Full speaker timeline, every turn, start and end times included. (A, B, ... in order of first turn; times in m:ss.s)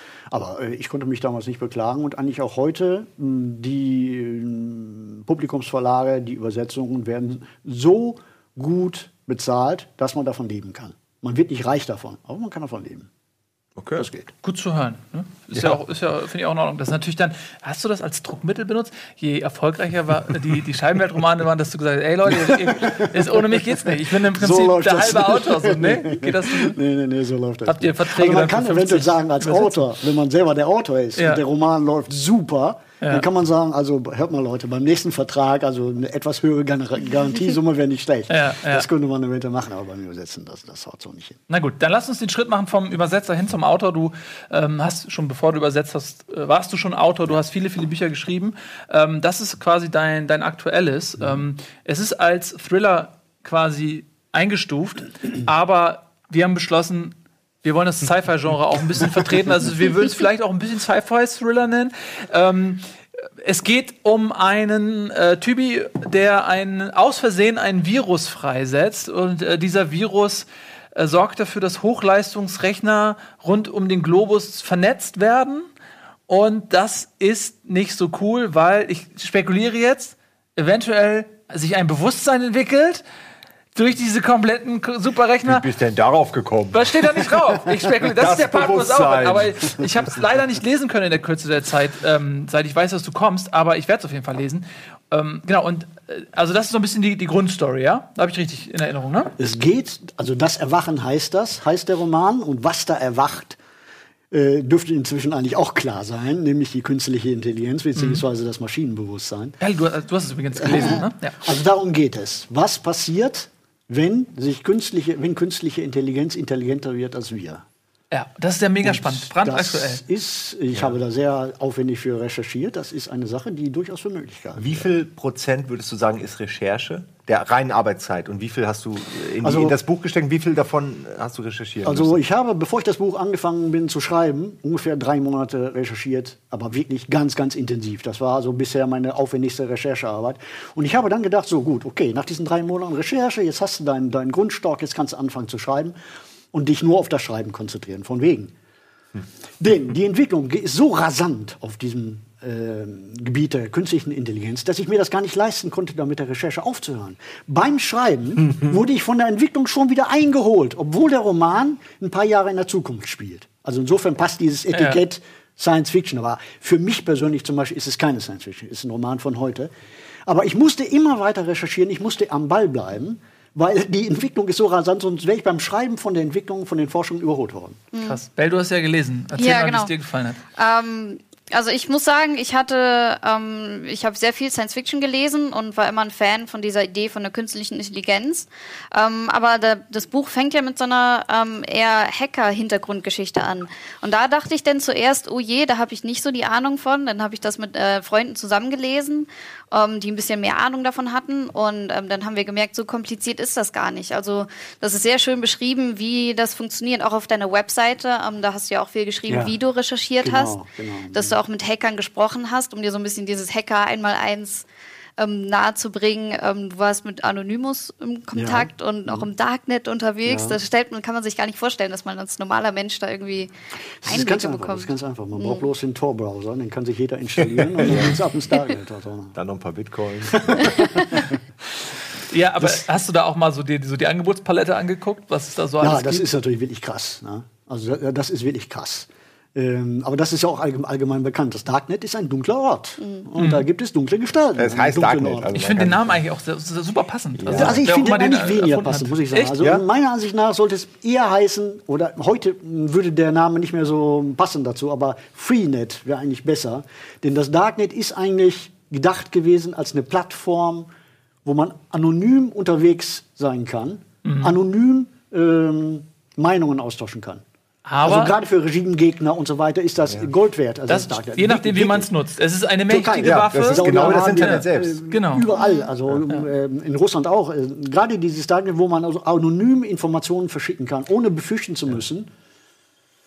0:00.3-0:13.1 A
0:13.8-0:14.1 B
0:14.0-0:14.3 A
0:14.4-0:26.8 C
0:22.3-0:23.6 A
0:24.3-0:41.4 A
0:27.7-0:29.8 C
0:31.2-0:31.4 C
0:33.0-0:33.3 C
0:38.3-0:38.9 C
0:41.5-1:02.8 C
1:03.4-1:15.7 C
1:16.3-1:23.0 C
1:23.8-1:25.6 C
1:25.4-1:27.3 B
1:26.7-1:39.3 C
1:28.0-1:30.1 B
1:39.4-1:43.6 A
1:44.3-1:49.6 A
1:48.0-1:48.2 C
1:49.6-1:51.4 C
1:50.6-1:57.6 A
1:58.1-2:00.0 C
1:58.8-2:04.9 A
2:04.6-2:12.2 B
2:09.4-2:09.8 A
2:11.8-2:26.0 A
2:26.5-2:28.5 A
2:29.6-2:49.7 A
2:44.7-2:45.0 C
2:50.3-2:57.8 A
2:57.9-2:58.2 D
2:58.0-3:00.4 C
2:59.4-2:59.9 D
3:00.6-3:30.6 D
3:29.3-3:29.6 A
3:30.2-3:31.4 A
3:31.1-3:34.7 D
3:35.2-3:43.5 D
3:38.4-3:39.3 A
3:40.3-3:40.6 A
3:44.0-3:49.4 A
3:44.1-3:45.6 D
3:47.7-3:48.2 B
3:49.4-3:50.8 B
3:50.2-3:51.3 A
3:50.6-3:51.1 D
3:52.2-3:56.3 C
3:55.8-4:05.5 A
4:03.0-4:03.2 D
4:03.4-4:03.6 C
4:04.6-4:06.2 B
4:05.5-4:09.6 C
4:07.4-4:07.8 B
4:07.5-4:20.9 A
4:21.4-4:27.4 A
4:24.2-4:24.6 C
4:27.9-4:28.3 C
4:28.0-4:32.1 A
4:30.9-4:35.5 C
4:32.9-4:42.3 A
4:33.2-4:35.0 B
4:35.5-4:35.9 D